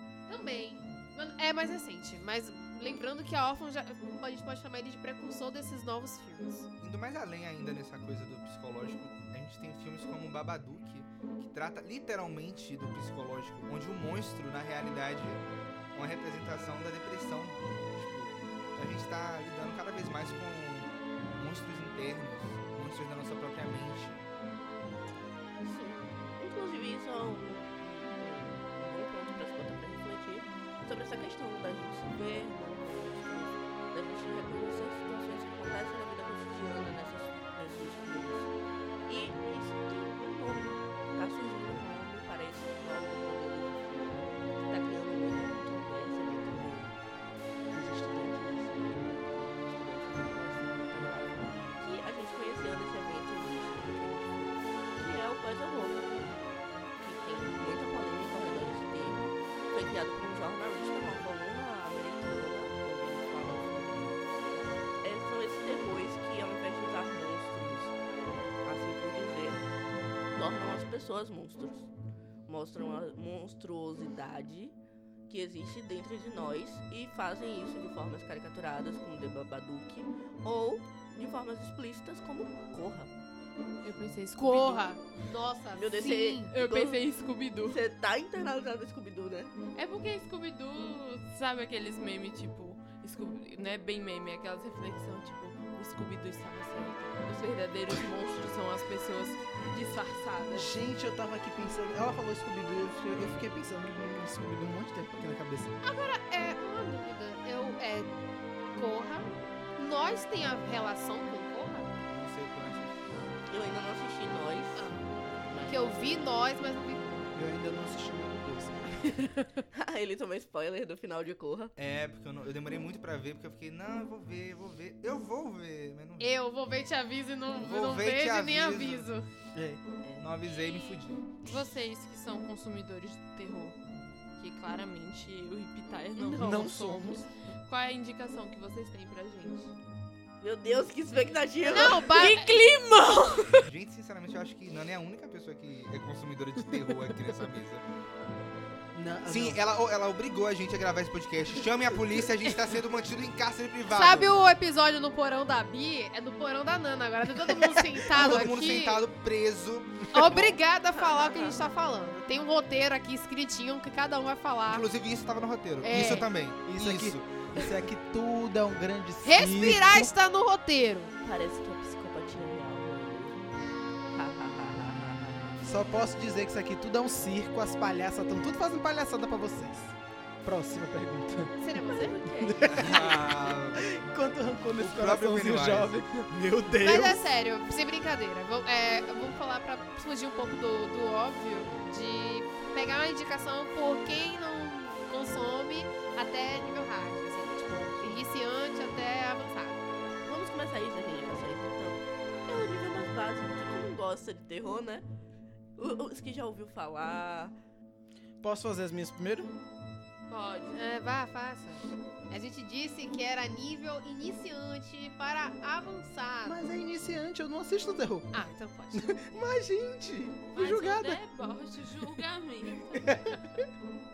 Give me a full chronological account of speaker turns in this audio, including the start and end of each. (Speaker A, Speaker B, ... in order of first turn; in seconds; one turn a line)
Speaker A: 0.3-6.7
Speaker B: 6.8-24.3
Speaker C: 25.6-38.5
Speaker C: 39.1-47.0
Speaker C: 47.7-56.3
Speaker C: 57.0-68.0
Speaker C: 68.6-69.6
Speaker C: 70.3-71.9
Speaker C: 72.5-74.7
Speaker C: 75.3-83.1
Speaker D: 83.8-85.0
Speaker A: 84.4-86.5
Speaker C: 85.7-87.0
Speaker D: 86.5-87.8
Speaker C: 87.6-89.5
Speaker D: 89.8-100.7
Speaker E: 100.5-105.7
Speaker A: 105.8-108.2
Speaker A: 108.8-112.0
Speaker B: 112.1-113.3
Speaker C: 113.5-114.9
Speaker A: 114.8-115.1
Speaker C: 115.5-116.3
Speaker A: 115.7-117.4
Speaker E: 117.3-119.2
Speaker A: 119.2-119.6
Speaker C: 119.7-121.7
Speaker B: 121.8-126.4
Speaker A: 126.2-129.3
Speaker B: 127.6-129.1
Speaker E: 129.5-129.8
Speaker C: 130.0-130.3
Speaker B: 130.2-131.3
Speaker D: 131.4-133.8
Speaker D: 134.4-139.7
Speaker E: 136.2-137.2
Speaker C: 136.4-136.7
Speaker C: 140.4-142.3
Speaker A: 141.7-142.6
Speaker D: 141.7-143.7
Speaker B: 143.7-147.8
Speaker E: 148.9-149.6
Speaker B: 149.3-154.3
Speaker A: 153.9-159.1
Speaker B: 158.1-160.6
Speaker A: 160.1-164.9
Speaker C: 161.0-161.7
Speaker B: 164.7-167.2
Speaker A: 165.8-166.3
Speaker E: 165.9-170.1
Speaker A: 169.2-171.1
Speaker C: 171.2-175.7
Speaker E: 175.6-181.5
Speaker A: 181.6-182.2
Speaker C: 181.9-183.4
Speaker E: 182.2-187.3
Speaker B: 182.7-183.9
Speaker B: 184.8-186.0
Speaker A: 186.8-199.8
Speaker C: 200.3-205.1
Speaker C: 205.8-207.6
Speaker E: 208.4-209.5
Speaker D: 210.3-210.8
Speaker A: 210.7-216.6
Speaker E: 216.4-221.2
Speaker A: 218.3-219.5
Speaker D: 220.5-223.4
Speaker E: 222.9-223.7